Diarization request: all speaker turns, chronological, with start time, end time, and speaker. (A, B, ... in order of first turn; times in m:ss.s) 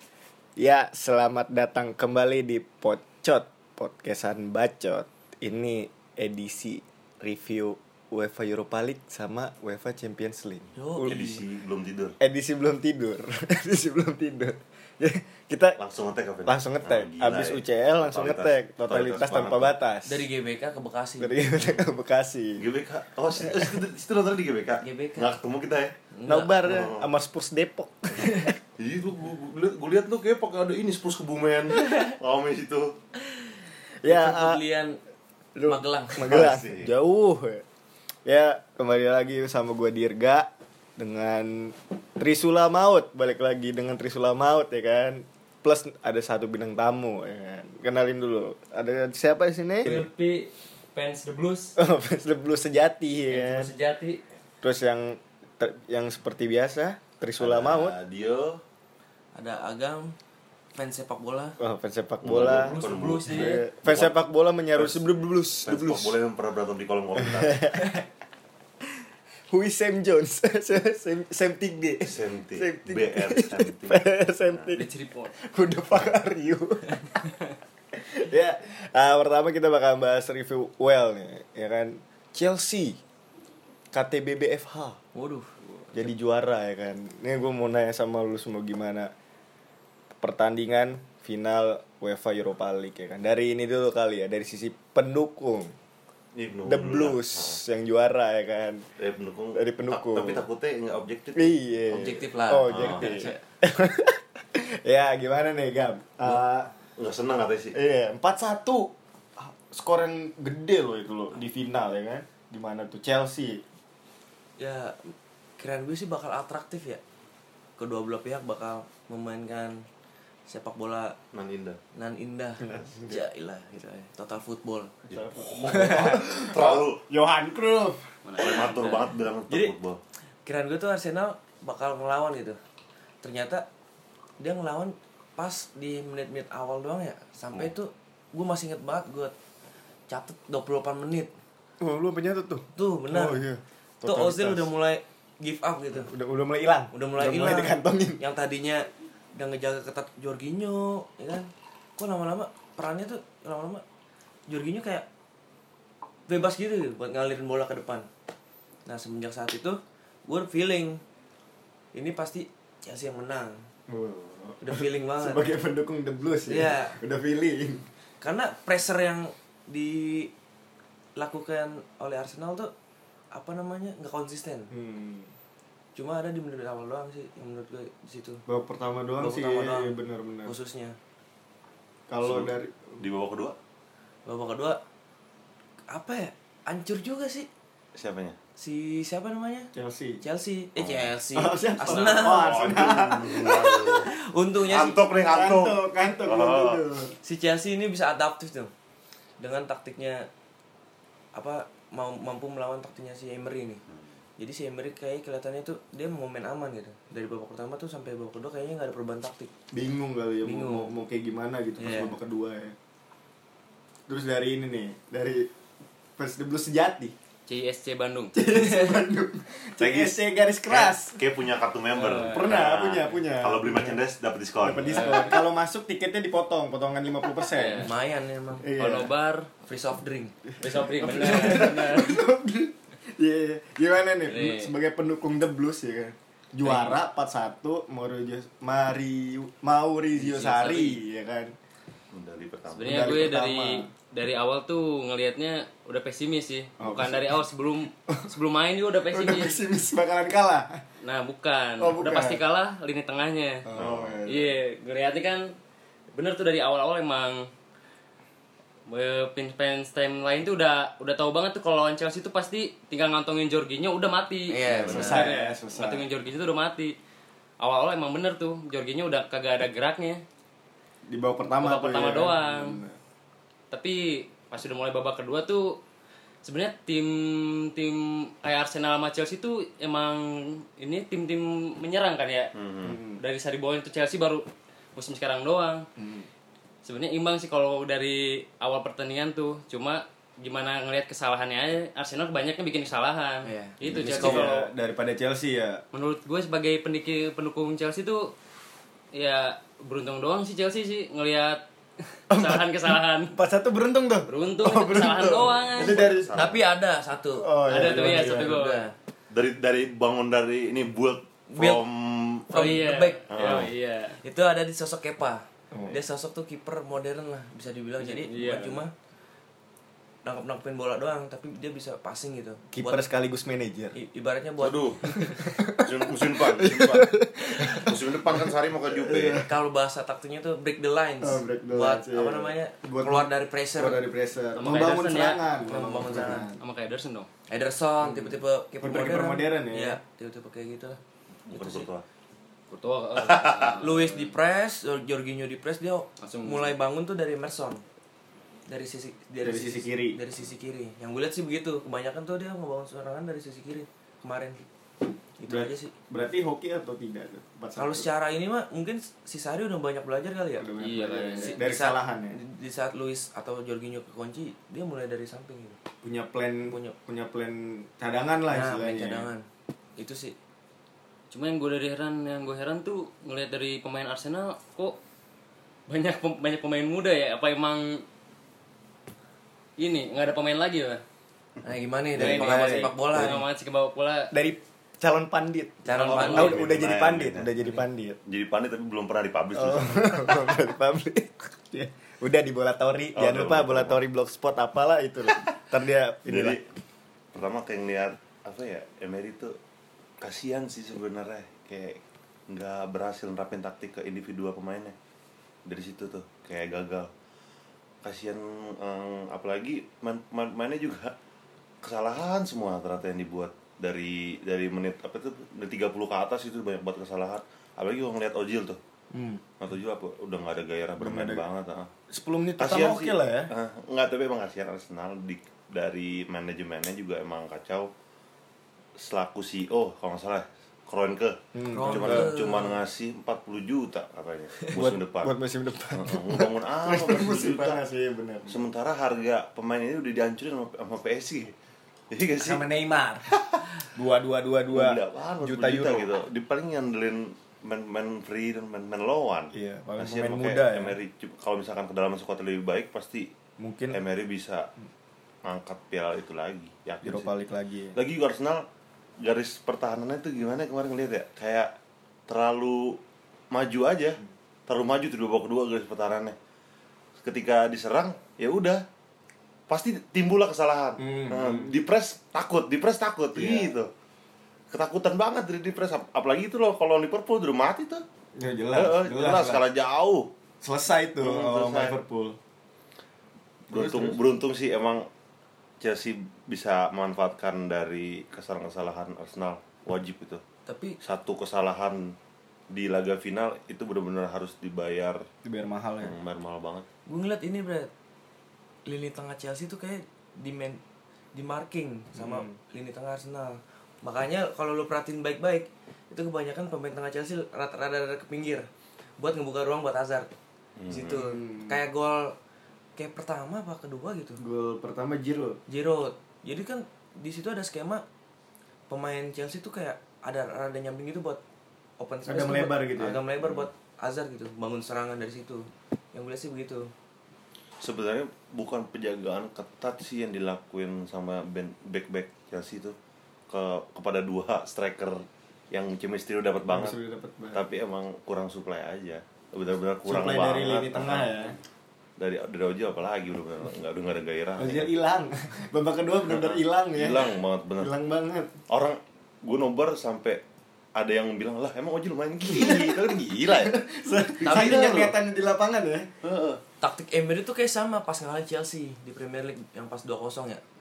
0:00.6-0:11.2 A
0:10.8-0:11.4 B
0:11.0-0:12.2 C
0:12.2-0:15.8 A
0:15.8-0:19.7 C
0:16.4-0:20.3 A
0:20.0-0:21.4 B
0:21.2-0:22.6 A
0:22.6-0:26.0 C
0:23.4-0:23.7 A
0:24.8-0:25.4 B
0:26.1-0:26.5 B
0:26.2-0:28.5 A
0:26.6-0:27.1 C
0:28.2-0:28.5 B
0:28.8-0:33.0 C
0:31.8-0:32.1 B
0:34.0-0:34.6 A
0:34.0-0:35.0 B
0:35.5-0:37.6 A
0:35.6-0:36.4 B
0:36.2-0:36.9 C
0:38.2-0:50.0 A
0:49.8-0:51.8 D
0:51.8-0:53.7 A
0:53.3-0:54.2 D
0:54.6-0:58.0 A
0:57.4-0:58.6 C
0:59.3-1:00.1 B
1:00.7-1:01.6 B
1:01.6-1:06.2 A
1:02.2-1:04.1 C
1:02.5-1:03.6 D
1:04.7-1:05.0 C
1:05.6-1:07.9 C
1:07.2-1:08.0 A
1:09.5-1:17.0 A
1:12.0-1:14.7 C
1:14.7-1:15.3 D
1:17.9-1:23.0 A
1:23.9-1:25.0 A
1:25.1-1:25.5 B
1:25.9-1:29.1 A
1:30.2-1:35.7 A
1:36.3-1:37.6 C
1:36.6-1:38.9 A
1:39.0-1:41.6 C
1:39.5-1:40.4 A
1:41.3-1:46.7 A
1:41.9-1:43.4 B
1:42.6-1:43.3 C
1:47.0-1:47.8 C
1:47.7-1:53.6 A
1:54.6-1:57.0 B
1:57.8-1:59.8 B
2:00.5-2:01.2 B
2:01.3-2:01.8 C
2:01.9-2:04.9 B
2:02.6-2:03.2 A
2:05.1-2:07.0 C
2:05.1-2:08.1 A
2:08.2-2:09.2 D
2:08.4-2:10.0 C
2:09.5-2:09.7 B
2:10.4-2:12.6 B
2:13.2-2:13.6 B
2:14.4-2:19.3 B
2:20.1-2:21.3 B
2:21.8-2:24.7 A
2:22.7-2:23.4 B
2:24.0-2:26.1 B
2:25.9-2:28.2 A
2:26.9-2:33.8 B
2:34.5-2:35.1 B
2:36.3-2:38.1 B
2:38.8-2:41.0 B
2:41.9-2:43.6 B
2:43.9-2:47.8 A
2:44.6-2:45.5 B
2:46.5-2:47.0 B
2:48.2-2:50.3 B
2:51.2-2:52.7 B
2:53.3-2:54.7 B
2:54.7-2:55.3 A
2:56.0-2:58.4 B
2:58.5-3:00.5 A
2:59.2-2:59.9 B
3:00.4-3:01.0 B
3:02.1-3:03.0 A
3:02.2-3:03.6 C
3:04.2-3:04.8 B
3:05.9-3:07.5 B
3:07.9-3:08.4 C
3:08.6-3:09.7 B
3:09.7-3:10.2 A
3:10.2-3:12.8 B
3:10.8-3:11.1 C
3:11.3-3:13.8 A
3:12.1-3:14.1 C
3:13.4-3:15.0 B
3:14.6-3:16.8 C
3:15.2-3:17.1 A
3:17.2-3:18.7 B
3:19.4-3:20.3 B
3:21.3-3:23.8 B
3:24.4-3:29.5 B
3:29.7-3:32.8 A
3:30.4-3:30.9 B
3:31.8-3:32.1 B
3:34.1-3:35.5 A
3:36.2-3:37.1 A
3:37.5-3:38.4 D
3:38.3-3:41.2 A
3:38.5-3:39.0 B
3:39.8-3:45.3 C
3:41.9-3:42.6 D
3:42.3-3:44.0 A
3:44.6-3:47.9 A
3:44.8-3:45.4 D
3:47.5-3:47.9 D
3:47.8-3:48.7 B
3:48.6-3:49.1 A
3:48.7-3:49.5 D
3:49.6-3:50.3 B
3:50.5-4:01.5 A
3:50.6-3:52.3 D
3:54.2-3:54.7 D
3:56.6-3:57.0 D
4:00.2-4:01.0 D
4:02.1-4:03.3 C
4:02.7-4:09.6 D
4:02.8-4:03.9 A
4:06.8-4:07.4 A
4:09.1-4:10.8 A
4:11.0-4:13.6 D
4:11.8-4:12.4 A
4:13.6-4:14.6 A
4:13.7-4:14.2 C
4:14.2-4:15.5 D
4:16.1-4:17.5 D
4:18.9-4:26.9 D
4:24.5-4:25.3 B
4:24.8-4:26.0 A
4:27.6-4:30.2 D
4:31.1-4:33.0 A
4:31.6-4:32.8 D
4:33.7-4:35.8 D
4:36.4-4:42.5 D
4:42.5-4:43.0 C
4:42.8-4:43.2 A
4:43.2-4:45.8 D
4:46.0-4:46.3 A
4:46.8-4:54.7 D
4:53.4-4:54.6 B
4:54.2-4:55.8 A
4:55.9-4:58.3 D
4:59.1-5:03.4 D
5:02.3-5:06.3 A
5:04.3-5:06.0 D
5:05.6-5:06.6 C
5:06.3-5:08.9 B
5:07.4-5:08.6 A
5:07.6-5:08.8 D
5:09.3-5:12.7 C
5:11.5-5:11.8 B
5:12.5-5:13.6 B
5:12.5-5:14.2 D
5:13.3-5:13.7 C
5:14.2-5:18.9 B
5:15.7-5:16.0 A
5:18.0-5:18.8 D
5:20.2-5:23.1 B
5:22.7-5:23.9 A
5:23.9-5:25.3 B
5:24.6-5:29.4 C
5:25.0-5:29.5 A
5:29.4-5:34.0 B
5:31.2-5:36.6 A
5:34.5-5:37.3 D
5:35.6-5:36.5 B
5:37.5-5:41.0 B
5:38.8-5:40.0 A
5:41.5-5:42.0 C
5:41.5-5:41.9 B
5:42.7-5:44.3 D
5:43.2-5:43.8 C
5:43.8-5:47.8 B
5:46.2-5:46.7 D
5:48.7-5:54.6 B
5:49.4-5:50.2 A
5:55.4-5:55.9 B
5:55.5-5:58.1 A
5:57.8-6:00.7 B
6:00.6-6:02.4 A
6:00.8-6:01.6 D
6:01.4-6:05.8 B
6:06.0-6:09.3 A
6:06.7-6:06.9 B
6:08.5-6:09.4 B
6:10.0-6:10.4 B
6:11.3-6:15.0 D
6:15.9-6:18.0 D
6:19.8-6:21.0 D
6:21.6-6:23.4 B
6:22.1-6:24.3 D
6:22.2-6:23.4 A
6:24.3-6:28.2 A
6:25.8-6:26.6 B
6:25.9-6:26.7 D
6:26.1-6:27.5 C
6:28.2-6:30.5 C
6:29.5-6:36.6 A
6:33.1-6:34.0 C
6:35.3-6:35.6 C
6:36.2-6:36.6 C
6:37.3-6:39.6 C
6:40.2-6:44.9 C
6:45.6-6:47.1 C
6:48.0-6:51.1 C
6:51.8-6:58.8 C
6:59.1-6:59.4 A
6:59.6-7:01.9 C
7:01.0-7:01.4 A
7:02.1-7:03.5 A
7:02.6-7:07.9 C
7:09.0-7:15.3 C
7:11.5-7:12.3 A
7:11.7-7:12.8 B
7:14.7-7:18.6 A
7:15.9-7:17.8 C
7:18.5-7:21.5 C
7:22.1-7:22.6 C
7:22.4-7:23.3 A
7:23.8-7:26.2 A
7:24.7-7:33.3 C
7:29.5-7:31.0 A
7:33.6-7:34.0 A
7:33.9-7:34.7 C
7:35.4-7:37.3 C
7:37.0-7:38.0 A
7:37.9-7:38.7 C
7:39.2-7:41.7 C
7:42.3-7:43.0 C
7:43.5-7:46.4 C
7:47.2-7:48.8 C
7:49.7-7:53.9 C
7:51.0-7:51.7 A
7:53.3-7:53.7 A
7:54.7-7:58.0 C
7:58.4-7:59.6 A
7:58.7-8:00.3 C
8:00.6-8:02.4 A
8:01.2-8:01.9 C
8:03.7-8:04.2 A
8:03.7-8:05.1 C
8:05.8-8:10.4 C
8:10.6-8:11.0 B
8:11.0-8:12.2 C
8:12.7-8:15.2 C
8:15.4-8:16.2 A
8:16.0-8:16.8 C
8:17.0-8:17.9 B
8:18.8-8:20.8 B
8:21.3-8:30.3 B
8:22.1-8:22.5 A
8:30.8-8:31.2 C
8:30.9-8:32.3 B
8:31.1-8:31.8 A
8:33.0-8:34.4 B
8:34.4-8:35.6 A
8:35.7-8:38.0 B
8:38.9-8:41.4 B
8:42.0-8:46.9 B
8:42.3-8:43.2 A
8:43.4-8:43.7 C
8:47.8-8:53.0 C
8:53.5-8:57.0 C
8:56.7-8:57.6 A
8:57.5-9:01.3 C
9:00.0-9:01.6 A
9:02.2-9:04.9 C
9:04.6-9:08.5 A
9:06.3-9:07.9 C
9:08.7-9:10.4 C
9:10.9-9:13.8 C
9:12.4-9:16.1 A
9:14.4-9:15.1 C
9:14.4-9:15.0 B
9:16.2-9:16.6 C
9:16.8-9:20.6 B